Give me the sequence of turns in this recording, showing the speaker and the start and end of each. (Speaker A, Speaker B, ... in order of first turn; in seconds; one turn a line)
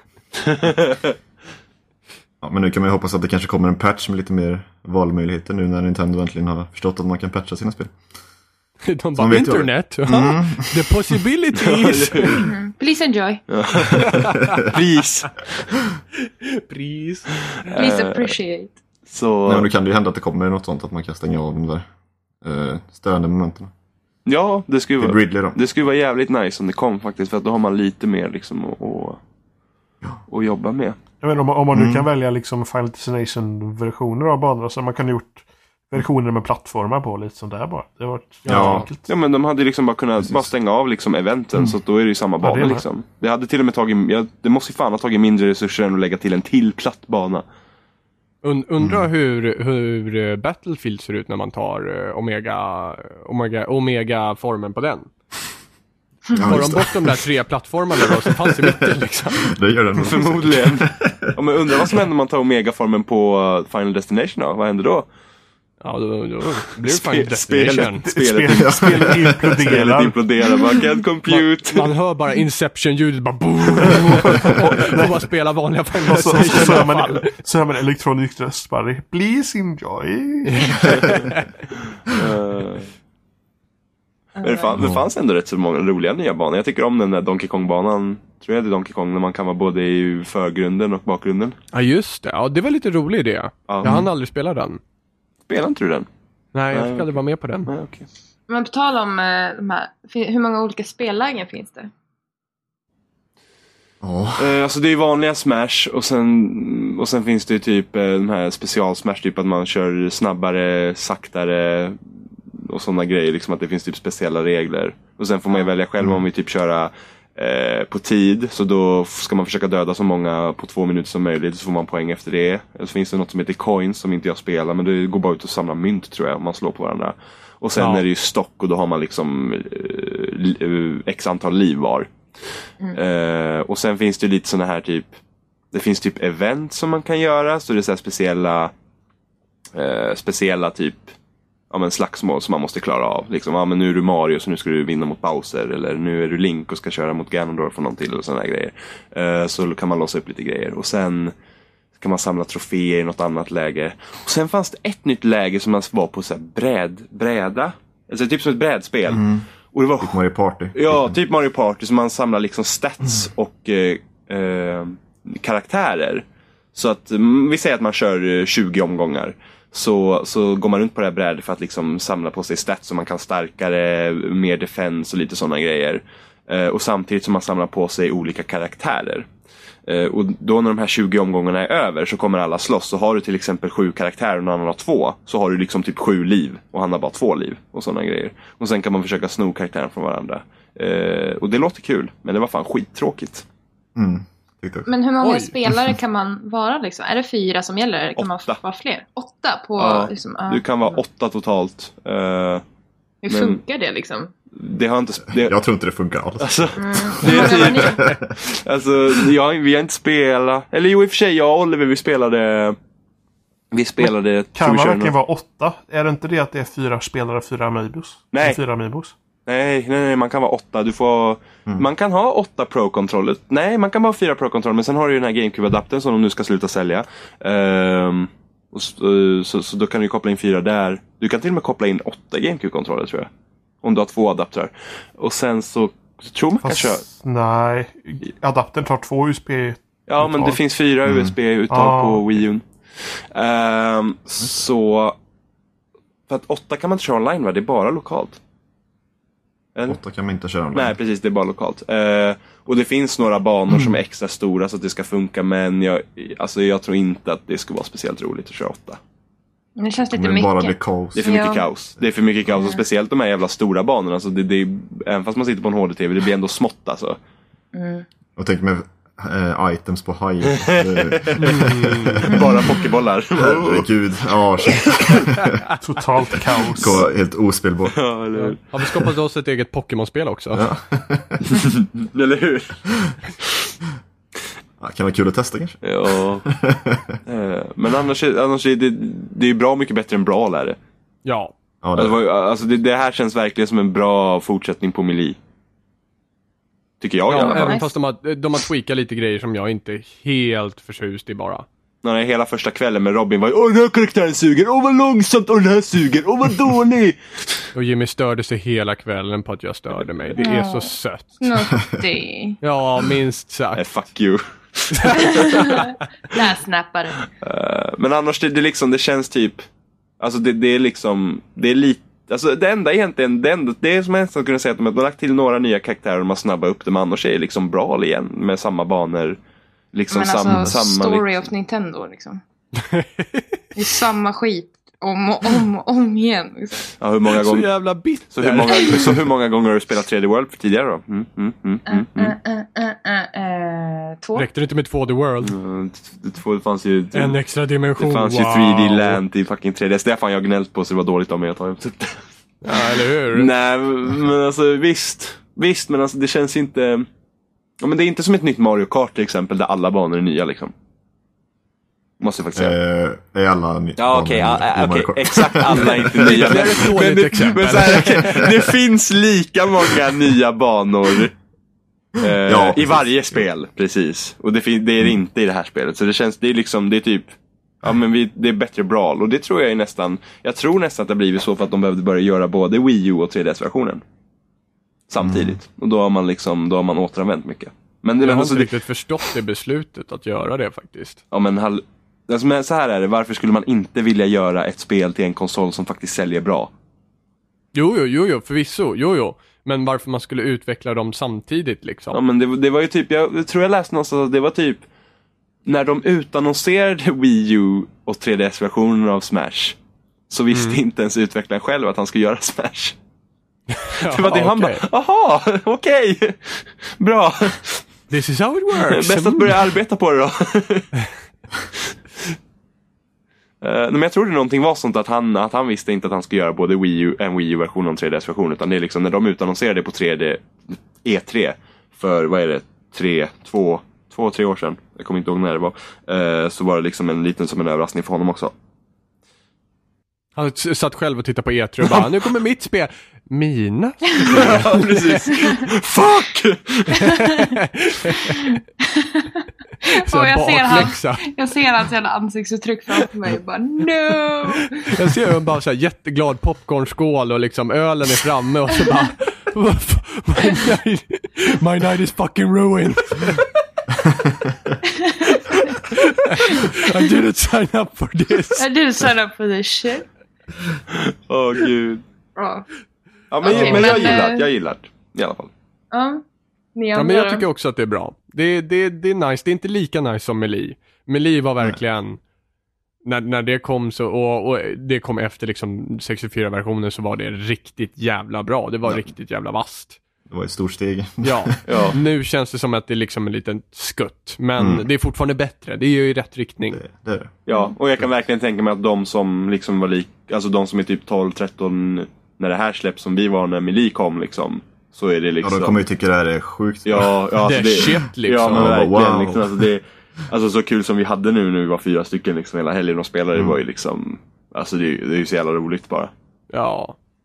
Speaker A: 0.6-1.0
Speaker B: 2.4-8.0
Speaker C: 8.9-12.5
Speaker B: 9.2-10.9
Speaker A: 11.6-12.5
Speaker D: 12.4-13.4
Speaker A: 13.5-15.7
Speaker C: 14.0-14.4
Speaker B: 14.2-14.6
Speaker C: 16.4-17.3
Speaker A: 17.5-18.4
Speaker D: 17.8-18.7
Speaker A: 19.1-19.7
Speaker B: 19.5-21.9
Speaker B: 22.4-23.7
Speaker A: 24.3-29.2
Speaker B: 25.0-25.6
Speaker A: 30.3-31.0
Speaker E: 31.2-39.1
Speaker B: 31.7-32.1
Speaker C: 38.5-38.9
Speaker B: 38.5-38.9
Speaker A: 39.1-47.4
Speaker E: 42.4-42.8
Speaker C: 48.4-55.1
Speaker B: 48.8-49.1
Speaker B: 56.3-57.2
Speaker C: 56.4-59.5
Speaker B: 58.5-58.9
Speaker B: 59.4-61.9
Speaker A: 60.0-65.1
Speaker C: 65.8-68.1
Speaker A: 66.8-71.9
Speaker E: 68.0-70.2
Speaker B: 68.6-69.5
Speaker C: 71.3-77.3
Speaker E: 74.2-75.2
Speaker E: 76.0-81.2
Speaker C: 80.5-81.5
Speaker A: 82.1-82.9
Speaker D: 84.4-84.8
Speaker A: 84.4-91.6
Speaker B: 84.8-85.1
Speaker C: 91.7-94.8
Speaker A: 93.7-94.0
Speaker B: 93.8-94.1
Speaker A: 95.5-96.1
Speaker C: 96.5-97.7
Speaker A: 96.7-97.2
Speaker A: 97.7-98.1
Speaker D: 98.5-101.9
Speaker B: 104.0-104.6
Speaker A: 104.4-112.0
Speaker A: 112.5-132.1
Speaker C: 127.8-128.1
Speaker A: 132.9-135.1
Speaker A: 135.7-138.7
Speaker A: 139.8-141.1
Speaker A: 141.7-151.3
Speaker A: 152.0-160.2
Speaker B: 159.1-159.5
Speaker B: 160.0-161.2
Speaker A: 160.7-166.2
Speaker A: 166.8-179.3
Speaker A: 179.9-193.4
Speaker B: 194.0-194.9
Speaker D: 194.9-201.0
Speaker C: 195.2-195.5
Speaker A: 198.2-198.6
Speaker A: 199.8-202.6
Speaker D: 203.2-204.3
Speaker A: 203.3-203.6
Speaker A: 204.6-205.6
Speaker B: 205.3-208.4
Speaker A: 206.4-212.8
Speaker D: 206.8-208.2
Speaker A: 213.7-215.1
Speaker E: 214.6-219.1
Speaker A: 218.3-218.6
Speaker A: 219.5-233.3
Speaker A: 233.8-237.0
Speaker E: 236.6-240.6
Speaker A: 240.1-242.6
Speaker B: 241.1-241.3
Speaker E: 241.7-242.3
Speaker A: 243.3-245.2
Speaker A: 246.3-248.4
Speaker B: 249.9-251.0
Speaker A: 250.7-259.0
Speaker D: 259.8-261.7
Speaker B: 260.1-261.4
Speaker A: 261.1-267.2
Speaker D: 262.6-262.8
Speaker D: 267.7-268.1
Speaker B: 268.4-272.5
Speaker A: 270.5-271.7
Speaker C: 271.4-272.4
Speaker A: 272.2-273.9
Speaker B: 273.4-275.6
Speaker A: 274.6-275.2
Speaker E: 275.8-277.0
Speaker B: 276.8-278.0
Speaker A: 277.9-278.6
Speaker C: 278.4-280.6
Speaker B: 280.5-281.4
Speaker A: 281.4-282.8
Speaker B: 284.8-287.2
Speaker A: 285.8-286.5
Speaker A: 287.3-290.8
Speaker C: 291.2-291.5
Speaker B: 291.8-292.2
Speaker A: 291.9-295.4
Speaker A: 297.0-297.8
Speaker C: 297.3-301.7
Speaker D: 297.3-297.9
Speaker A: 302.0-307.7
Speaker C: 307.7-311.3
Speaker D: 310.4-312.6
Speaker C: 312.6-313.8
Speaker A: 313.8-315.8
Speaker C: 314.9-315.9
Speaker D: 315.2-317.3
Speaker A: 317.4-319.6
Speaker A: 320.2-329.4
Speaker A: 329.9-331.4
Speaker D: 330.1-332.4
Speaker C: 332.8-333.4
Speaker D: 333.8-336.9
Speaker A: 337.0-337.7
Speaker C: 337.3-339.2
Speaker A: 338.3-342.3
Speaker D: 341.9-344.5
Speaker C: 344.4-345.6
Speaker A: 345.4-347.4
Speaker C: 347.1-349.2
Speaker A: 348.0-357.1
Speaker C: 352.6-353.5
Speaker A: 357.8-360.7
Speaker A: 362.2-362.8
Speaker B: 362.6-366.6
Speaker A: 364.0-371.3
Speaker C: 365.8-368.6
Speaker A: 372.2-377.3
Speaker B: 372.4-373.4
Speaker A: 377.8-384.0
Speaker A: 385.1-388.7
Speaker B: 385.2-385.6
Speaker C: 388.2-391.2
Speaker A: 391.3-396.7
Speaker C: 397.8-402.2
Speaker A: 402.1-404.8
Speaker A: 405.7-409.8
Speaker A: 410.3-413.0
Speaker C: 410.5-410.8
Speaker C: 413.7-414.9
Speaker A: 414.0-417.9
Speaker C: 418.1-419.6
Speaker A: 418.8-420.9
Speaker A: 423.6-438.5
Speaker C: 440.4-445.3
Speaker A: 441.8-442.1
Speaker D: 444.1-444.4
Speaker A: 444.3-447.2
Speaker C: 446.9-448.5
Speaker D: 447.2-447.6
Speaker D: 448.3-454.9
Speaker C: 450.0-451.3
Speaker C: 454.6-463.6
Speaker D: 464.9-465.6
Speaker C: 465.8-468.7
Speaker D: 466.5-466.8
Speaker D: 468.6-470.1
Speaker A: 470.9-472.0
Speaker D: 472.4-472.7
Speaker A: 473.3-475.5
Speaker D: 473.4-474.5
Speaker C: 473.5-474.2
Speaker D: 475.9-476.2
Speaker D: 476.8-477.4
Speaker C: 476.9-482.2
Speaker C: 483.0-490.0
Speaker B: 490.3-491.6
Speaker C: 491.2-496.8
Speaker A: 491.7-492.0
Speaker B: 494.6-494.9
Speaker B: 496.7-497.3
Speaker A: 497.5-505.8
Speaker B: 505.4-507.3
Speaker A: 506.9-516.1
Speaker C: 507.4-508.7
Speaker B: 508.5-509.7
Speaker C: 516.5-517.0